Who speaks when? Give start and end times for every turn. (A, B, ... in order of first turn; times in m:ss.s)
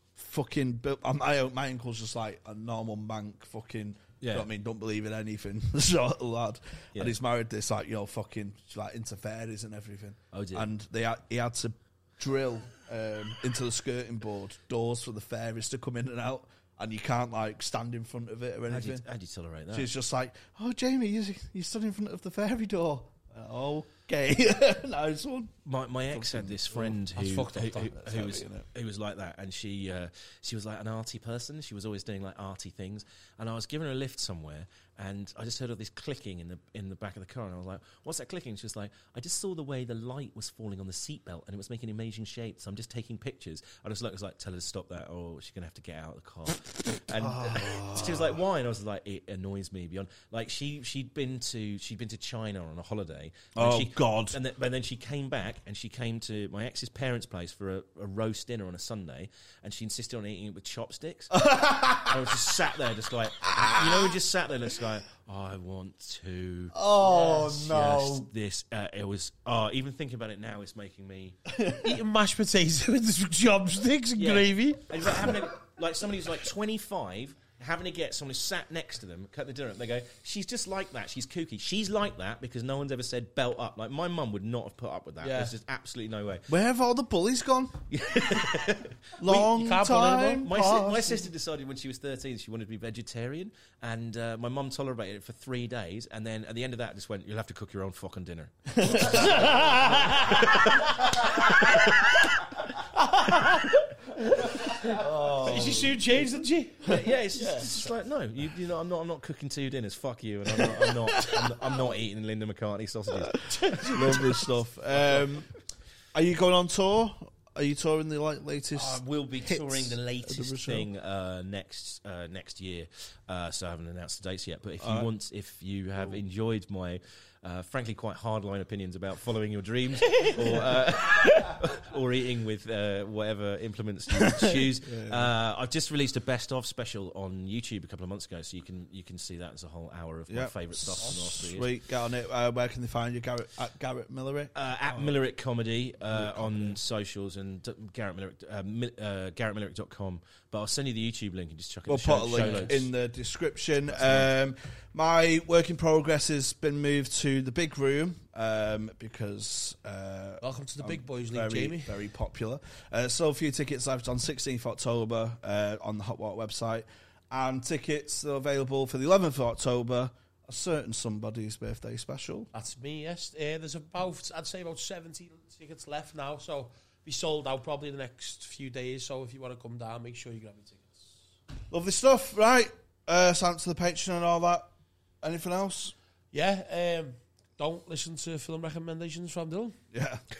0:00.2-0:19.0 A
0:04.2-0:04.5 B
0:10.3-0:10.7 B
0:18.7-0:19.9 B
0:19.7-0:25.5 A
0:25.6-1:01.3 B
0:26.1-0:27.0 A
0:27.2-0:27.9 C
0:27.8-0:28.6 A
0:47.2-0:48.4 A
0:53.5-0:54.4 A
1:01.3-1:02.2 A
1:02.0-1:11.4 B
1:03.4-1:04.2 A
1:06.7-1:08.3 A
1:07.1-1:07.4 C
1:11.5-1:11.9 A
1:11.8-1:15.3 C
1:14.2-1:26.5 B
1:25.2-1:25.5 C
1:26.5-1:27.8 A
1:27.9-1:29.5 B
1:29.2-1:31.2 A
1:29.3-1:30.9 C
1:30.4-1:41.9 B
1:38.7-1:41.9 A
1:39.0-1:41.9 C
1:42.9-1:47.8 C
1:44.4-1:46.2 A
1:46.8-1:53.4 B
1:50.6-1:51.4 A
1:53.3-1:55.5 A
1:53.5-1:54.5 C
1:55.0-1:55.2 B
1:56.1-2:00.9 A
1:58.7-2:21.7 B
2:04.8-2:05.1 A
2:14.2-2:15.3 A
2:20.3-2:25.1 A
2:24.5-2:32.9 B
2:26.1-2:26.8 A
2:31.9-2:52.5 A
2:32.3-2:32.7 C
2:33.9-2:34.3 B
2:40.4-2:41.9 C
2:52.5-3:01.1 C
3:01.7-3:04.7 A
3:05.2-3:05.9 A
3:06.3-3:09.8 C
3:09.9-3:10.2 A